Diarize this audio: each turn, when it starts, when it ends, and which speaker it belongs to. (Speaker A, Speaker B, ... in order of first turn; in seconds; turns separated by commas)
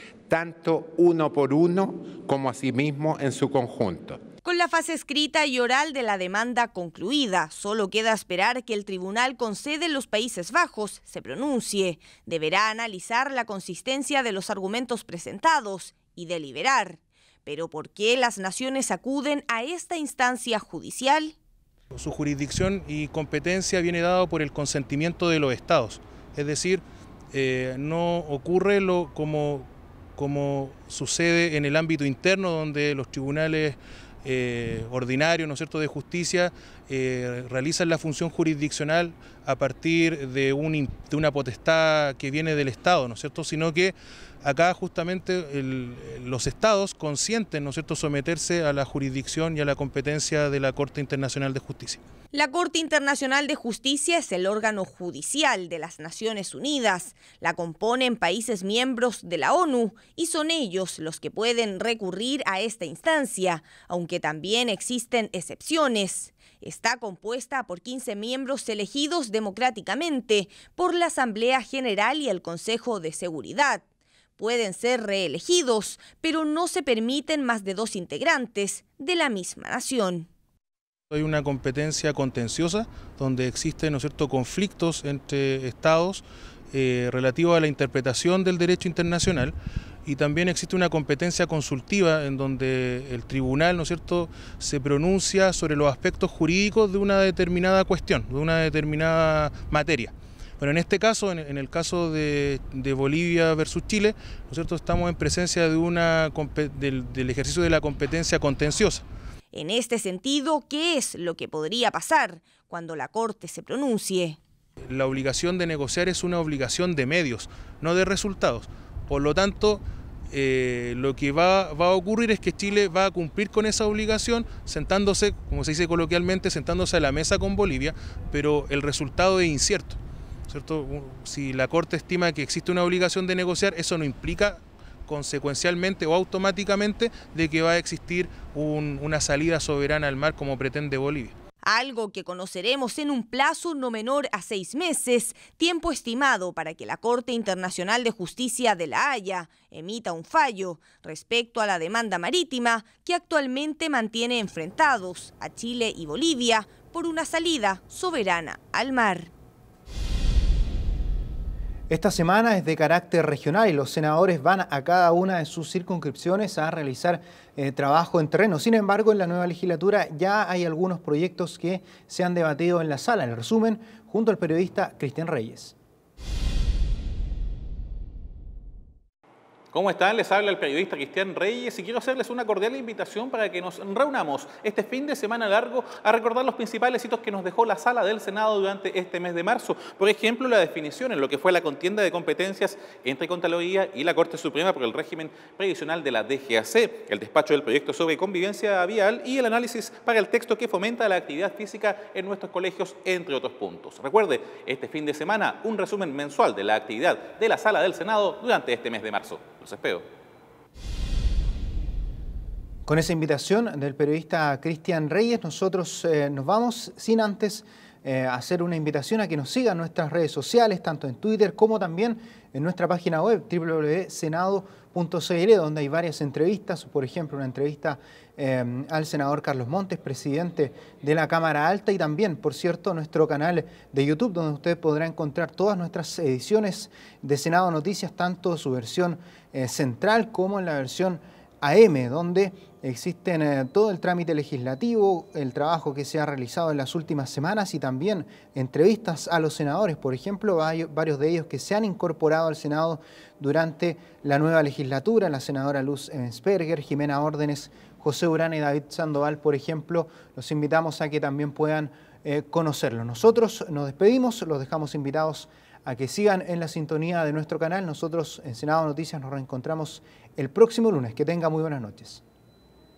Speaker A: 0.3-4.2, Speaker B: 4.5-21.3, Speaker C: 21.9-52.0, Speaker B: 52.3-73.8, Speaker B: 74.4-80.3, Speaker C: 81.1-89.5, Speaker C: 90.1-109.0, Speaker B: 109.5-114.4, Speaker C: 114.9-141.3, Speaker B: 141.7-159.3, Speaker D: 161.9-175.7, Speaker E: 179.7-210.1, Speaker D: 212.9-272.2